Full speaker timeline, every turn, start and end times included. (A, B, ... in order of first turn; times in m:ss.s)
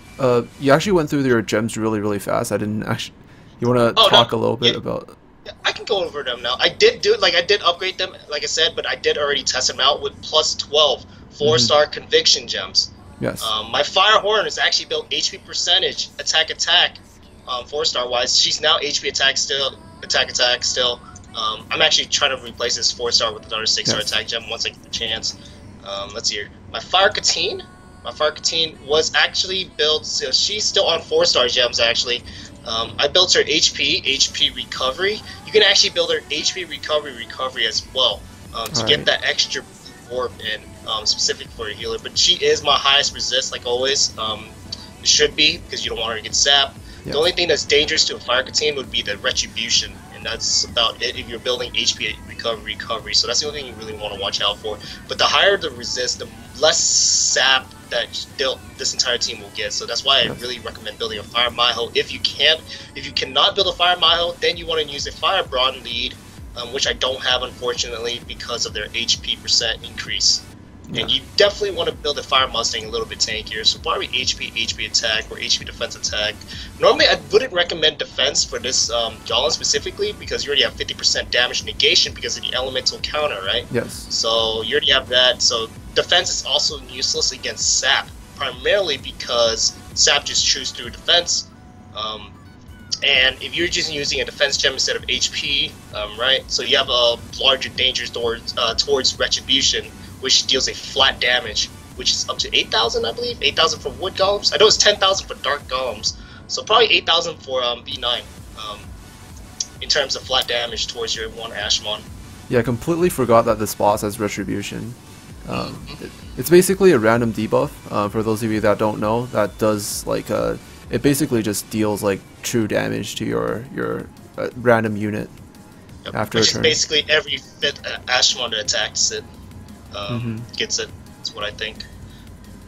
0:00.2-0:05.2 A
0:04.0-0:04.8 B
0:05.6-1:32.3 B
0:11.4-0:11.7 A
0:13.2-0:13.5 A
0:23.8-0:24.1 A
0:38.7-0:39.1 A
1:10.9-1:11.2 A
1:23.7-1:24.1 A
1:33.0-1:48.9 B
1:49.8-1:52.0 B
1:52.5-2:05.3 A
1:55.5-1:56.0 B
2:06.0-2:09.2 B
2:06.1-2:06.8 A
2:09.9-2:11.9 B
2:10.1-2:10.5 A